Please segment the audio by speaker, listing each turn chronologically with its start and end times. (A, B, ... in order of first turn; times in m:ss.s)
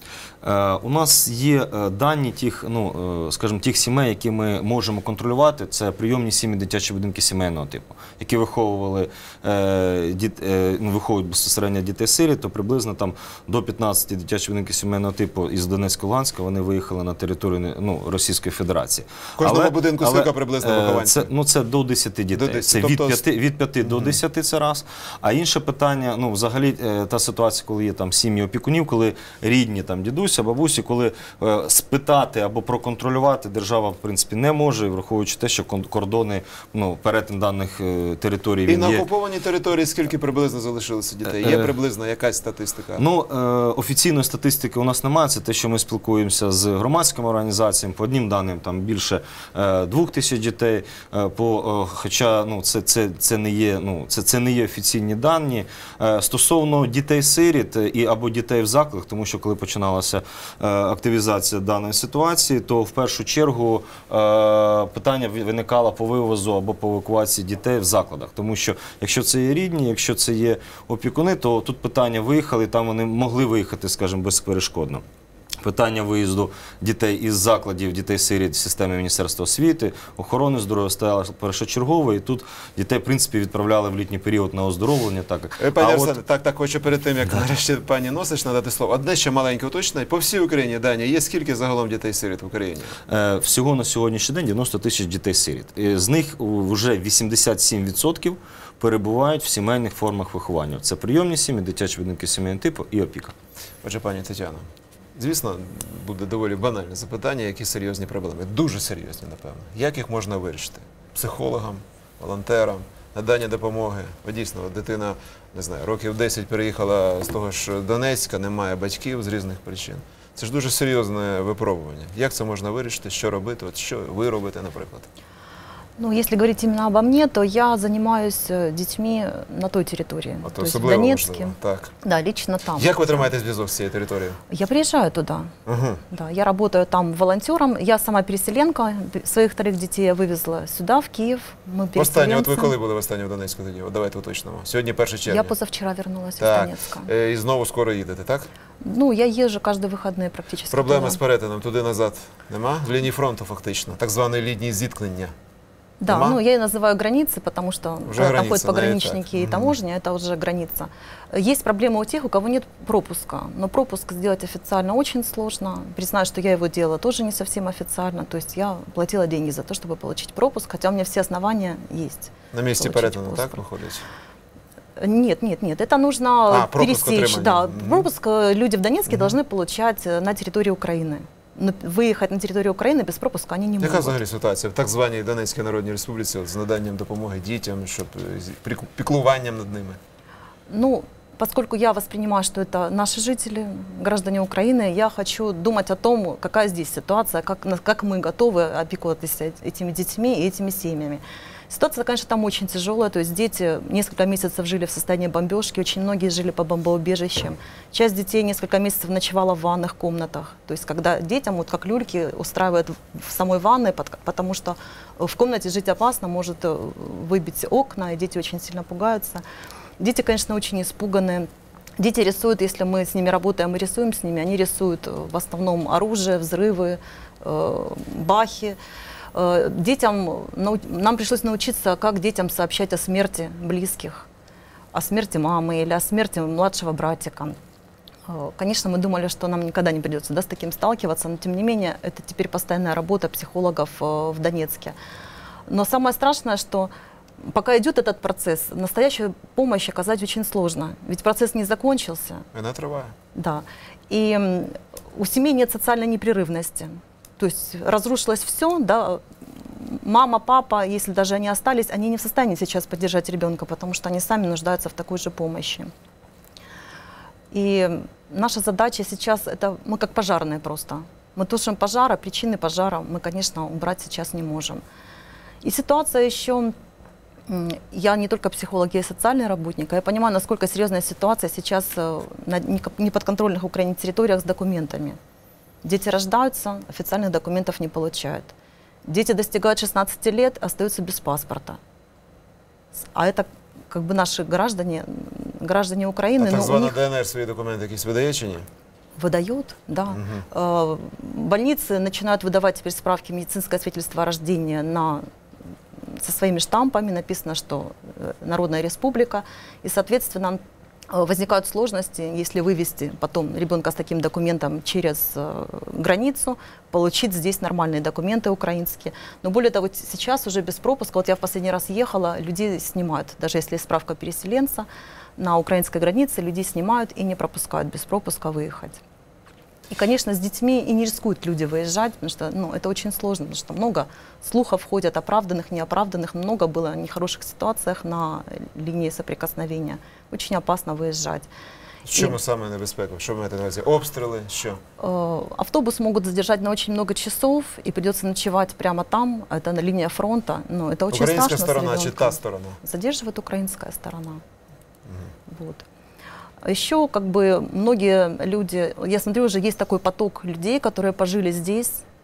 0:00.4-0:39.0 A
0:19.4-0:21.3 B
0:22.3-0:23.2 B
0:23.8-0:24.2 B
0:38.7-0:43.0 B
0:41.3-0:41.7 A
0:43.0-1:15.0 A
1:15.6-1:26.2 A
1:25.6-1:33.0 B
1:33.1-1:43.4 A
1:43.8-2:05.1 B
2:06.0-2:13.2 C
2:10.4-2:11.9 B
2:12.8-2:14.4 B
2:14.5-2:15.5 C
2:15.7-2:16.0 B
2:16.1-2:22.8 C
2:22.0-2:25.5 B
2:25.3-2:27.1 C
2:26.4-2:28.5 B
2:28.8-2:31.2 C
2:30.7-2:35.3 B
2:36.0-2:53.6 C
2:36.1-2:36.4 B
2:38.1-2:39.8 B
2:52.5-2:54.1 B
2:55.0-3:04.2 C
2:56.5-2:58.1 B
2:59.1-2:59.4 B
3:03.8-3:10.0 B
3:10.7-3:39.4 C
3:40.0-3:48.8 C
3:49.3-3:54.3 C
3:54.9-3:57.6 C
3:58.3-4:05.0 C
4:05.7-4:12.4 C
4:12.5-4:13.1 B
4:13.4-4:25.9 C
4:27.5-4:34.8 C
4:35.6-4:36.8 C
4:37.5-4:45.2 C
4:45.8-4:48.5 C
4:49.1-4:51.8 C
4:53.0-4:57.0 C
4:56.4-4:58.7 B
4:59.2-5:05.2 C
5:00.1-5:00.5 B
5:06.1-5:29.0 C
5:29.9-5:41.5 C
5:42.1-5:44.8 B
5:45.0-5:54.4 C
5:51.1-5:52.8 B
5:55.5-5:55.9 C
5:56.7-6:02.0 C